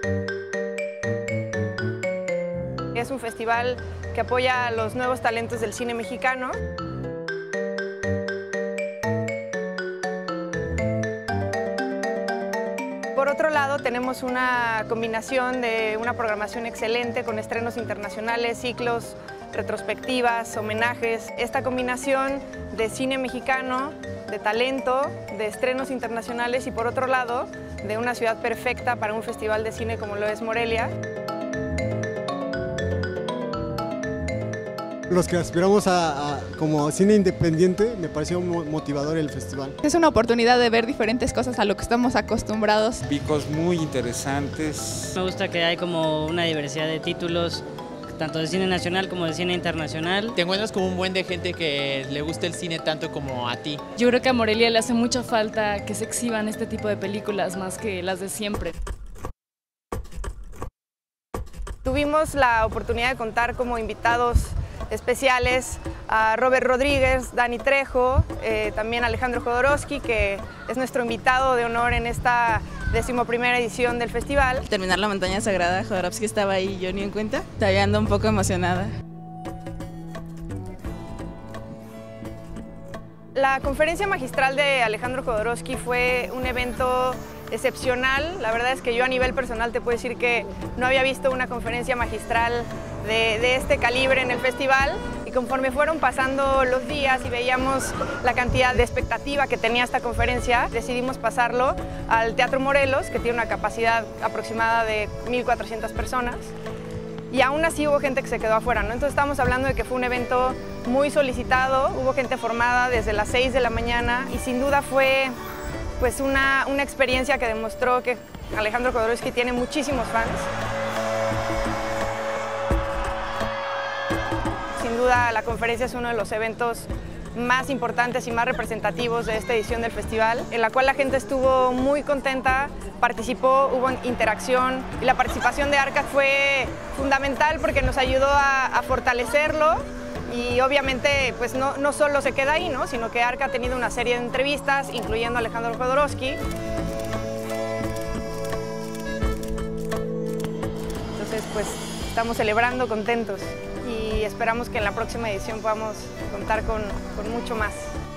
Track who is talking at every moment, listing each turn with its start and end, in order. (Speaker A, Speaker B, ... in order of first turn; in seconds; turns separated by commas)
Speaker A: 2.9-6.6, Speaker A: 13.1-30.9, Speaker B: 35.1-39.8, Speaker C: 39.8-43.0, Speaker D: 43.0-45.1, Speaker E: 45.1-50.4, Speaker F: 50.4-53.8, Speaker G: 54.0-58.7, Speaker A: 61.8-74.7, Speaker H: 74.7-78.9, Speaker A: 83.3-106.5, Speaker A: 107.3-115.3, Speaker A: 116.0-120.5, Speaker A: 124.8-146.4, Speaker A: 151.1-157.9